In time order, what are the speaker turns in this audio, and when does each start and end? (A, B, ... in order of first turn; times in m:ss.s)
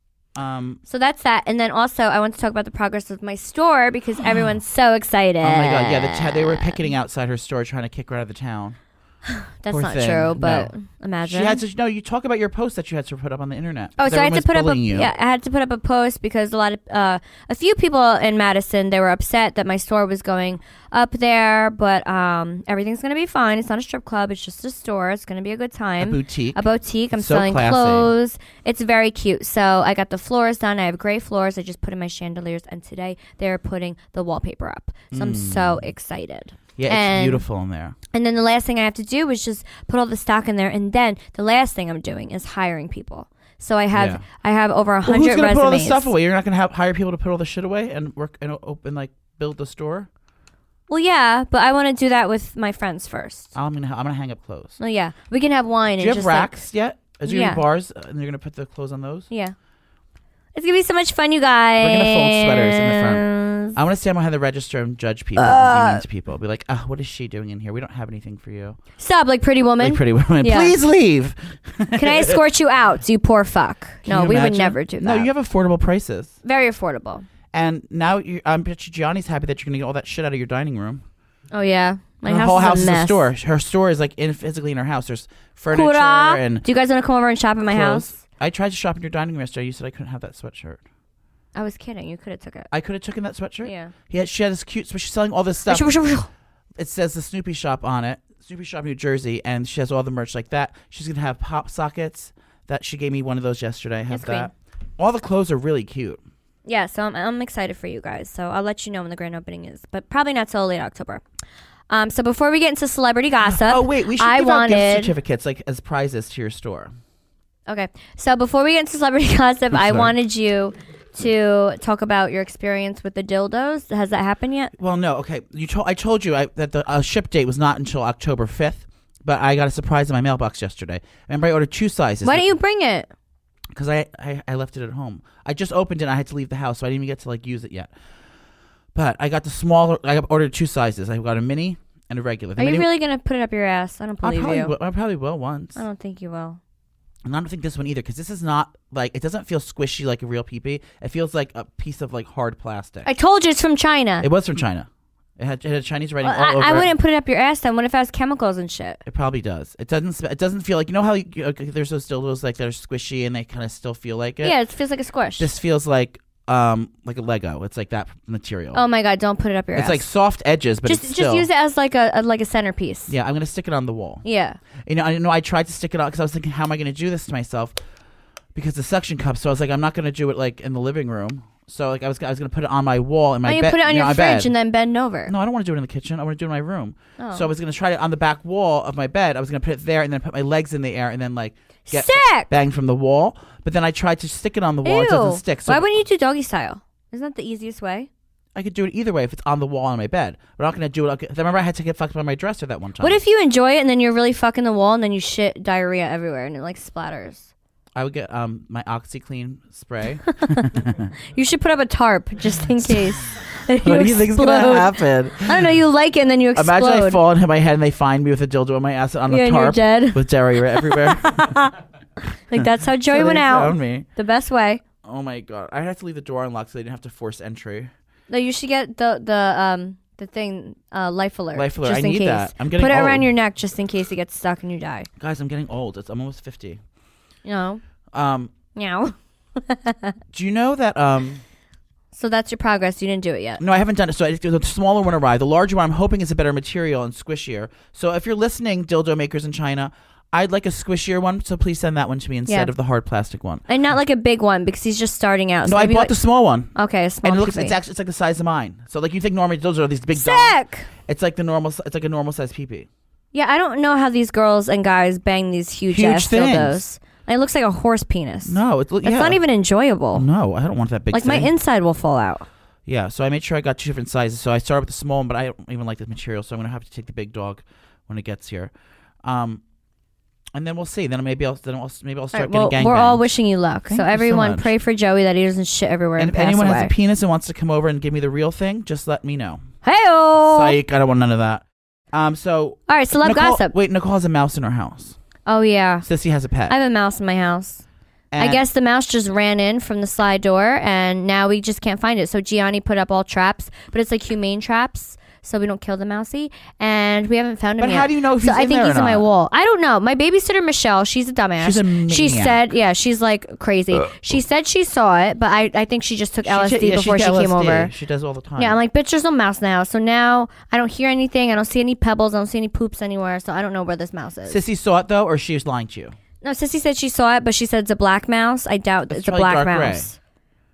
0:00.4-0:00.8 A
0:00.9-0:06.8 B
0:05.4-0:08.8 A
0:09.4-0:11.6 B
0:09.7-0:10.7 A
0:11.2-0:15.1 A
0:14.0-0:37.4 B
0:26.0-0:26.6 A
0:27.1-0:28.1 A
0:35.1-0:35.9 A
0:36.8-0:38.0 A
0:38.1-0:46.1 B
0:43.9-0:44.2 A
0:45.0-0:50.1 A
0:50.9-0:53.5 B
0:53.5-0:54.8 A
0:54.8-0:56.6 B
0:56.0-0:59.3 A
0:57.2-0:57.6 B
0:59.3-0:59.5 B
1:00.5-1:03.8 B
1:01.8-1:08.8 A
1:05.4-1:06.0 B
1:09.0-1:10.7 B
1:09.8-1:12.4 A
1:11.9-1:15.3 B
1:14.0-1:16.3 A
1:16.4-1:17.2 B
1:17.5-1:21.0 A
1:21.5-1:23.3 B
1:22.2-1:26.6 A
1:25.7-1:28.1 B
1:27.6-1:30.8 A
1:31.5-1:32.7 B
1:32.7-1:35.9 A
1:33.6-1:33.9 B
1:35.7-1:36.3 B
1:36.8-1:46.2 A
1:44.1-1:44.5 B
1:46.6-1:51.2 B
1:51.9-1:55.1 B
1:53.4-1:56.9 A
1:57.7-2:04.7 B
1:59.7-2:00.1 A
2:04.8-2:12.5 A
2:12.2-2:13.1 B
2:13.7-2:17.9 A
2:18.9-2:22.9 A
2:22.6-2:24.7 B
2:24.2-2:25.8 A
2:25.8-2:26.6 B
2:27.2-2:33.1 A
2:33.0-2:34.2 B
2:34.2-2:36.9 A
2:36.2-2:39.0 B
2:39.0-2:44.6 A
2:44.4-2:45.5 B
2:45.4-2:48.8 A
2:48.7-2:50.0 B
2:49.7-2:51.5 A
2:50.8-2:53.1 B
2:53.1-2:54.2 A
2:54.2-2:54.6 B
2:54.8-2:57.7 A
2:58.5-3:04.5 A
3:03.4-3:05.3 B
3:05.3-3:15.8 A
3:07.2-3:07.5 B
3:11.9-3:12.5 B
3:14.8-3:18.1 B
3:18.5-3:23.2 A
3:23.0-3:27.5 B
3:27.9-3:31.1 A
3:31.3-3:37.2 B
3:33.8-3:35.7 A
3:36.5-3:41.5 A
3:39.3-3:41.7 B
3:42.5-3:44.8 B
3:42.6-3:44.0 A
3:45.0-3:47.9 A
3:48.3-3:55.1 B
3:51.5-3:53.3 A
3:55.2-3:56.8 A
3:57.4-3:57.8 B
3:58.1-3:58.5 A
3:58.7-4:00.2 B
4:00.3-4:01.4 A
4:02.1-4:03.6 B
4:03.6-4:13.6 A
4:13.7-4:16.1 B
4:15.6-4:16.7 A
4:16.7-4:17.7 B
4:17.2-4:22.9 A
4:20.1-4:20.9 B
4:23.3-4:30.2 B
4:25.9-4:26.8 A
4:28.4-4:29.4 A
4:30.1-4:31.5 A
4:31.1-4:32.4 B
4:32.8-4:38.7 A
4:39.2-4:39.6 A
4:40.5-4:43.2 A
4:42.3-4:46.9 B
4:43.9-4:44.7 A
4:46.2-4:49.6 A
4:49.8-4:50.8 B
4:50.4-4:55.2 A
4:52.9-4:53.7 B
4:55.4-4:56.0 B
4:56.0-4:56.7 A
4:56.7-4:57.8 B
4:58.3-4:58.6 A
4:58.4-5:17.9 B
5:07.8-5:09.2 A
5:11.6-5:12.6 A
5:16.4-5:18.8 A
5:18.6-5:24.6 B
5:24.5-5:26.1 A
5:26.4-5:30.2 B
5:29.1-5:30.1 A